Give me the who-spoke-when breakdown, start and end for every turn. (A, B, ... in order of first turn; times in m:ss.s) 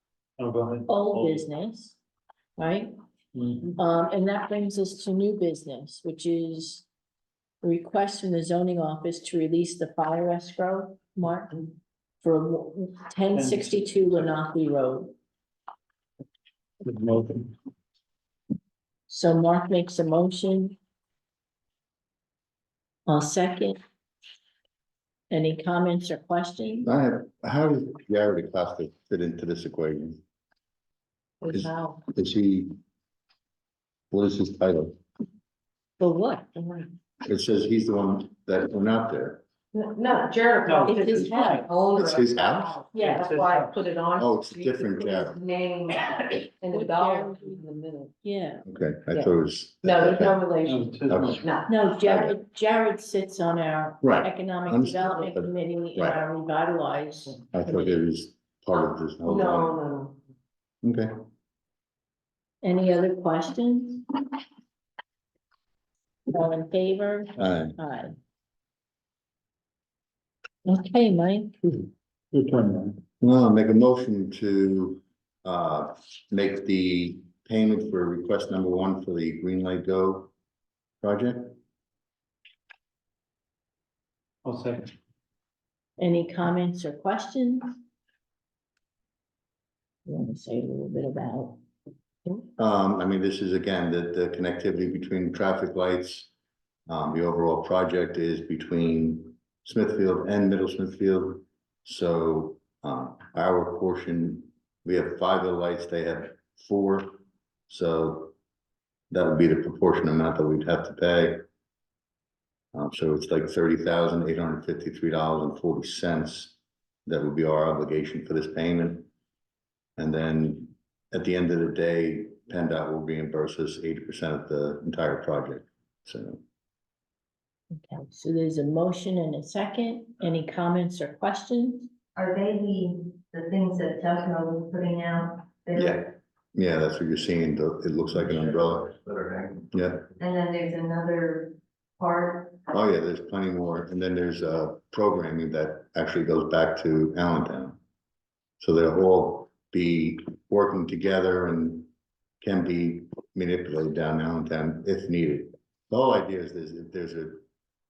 0:00.4-0:01.5 A
0:00.9-0:02.0 B
0:02.6-0:02.9 B
0:03.4-0:03.7 A
0:03.8-0:06.9 B
0:07.6-0:11.7 B
0:12.2-0:15.1 B
0:13.3-0:14.3 A
0:16.8-0:17.5 A
0:19.1-0:20.8 B
0:23.1-0:23.8 B
0:25.3-0:26.9 B
0:26.8-0:30.2 C
0:31.4-0:32.0 D
0:31.5-0:32.8 C
0:34.1-0:35.0 C
0:36.0-0:36.9 B
0:37.2-0:39.4 C
0:39.7-0:48.1 D
0:40.6-0:41.7 A
0:40.9-0:41.6 B
0:42.0-0:42.8 C
0:42.9-0:43.3 B
0:42.9-0:43.8 A
0:44.2-0:45.4 C
0:46.7-0:47.6 B
0:48.2-0:48.6 B
0:48.7-0:50.4 C
0:49.9-0:50.9 D
0:50.6-0:51.5 A
0:51.1-0:51.4 C
0:51.4-0:51.7 D
0:51.7-0:58.0 B
0:52.0-0:52.3 C
0:54.0-0:56.2 C
0:57.5-0:59.8 C
0:59.3-1:00.2 D
1:00.8-1:01.1 C
1:02.6-1:04.1 B
1:06.3-1:08.1 B
1:07.4-1:07.8 C
1:10.6-1:11.6 B
1:12.3-1:13.0 A
1:13.2-1:20.3 C
1:21.0-1:21.6 C
1:24.4-1:24.9 A
1:26.0-1:27.8 B
1:30.1-1:31.6 B
1:32.6-1:36.3 C
1:36.9-1:47.2 C
1:47.7-1:48.3 C
1:49.1-1:51.4 C
1:52.7-1:56.6 C
1:57.1-1:59.1 C
2:00.0-2:06.4 C
2:07.9-2:11.9 B
2:12.2-2:16.0 E
2:15.7-2:19.0 C
2:19.7-2:20.1 C
2:20.2-2:22.6 E
2:22.7-2:27.8 C
2:28.6-2:31.9 C
2:32.4-2:37.4 C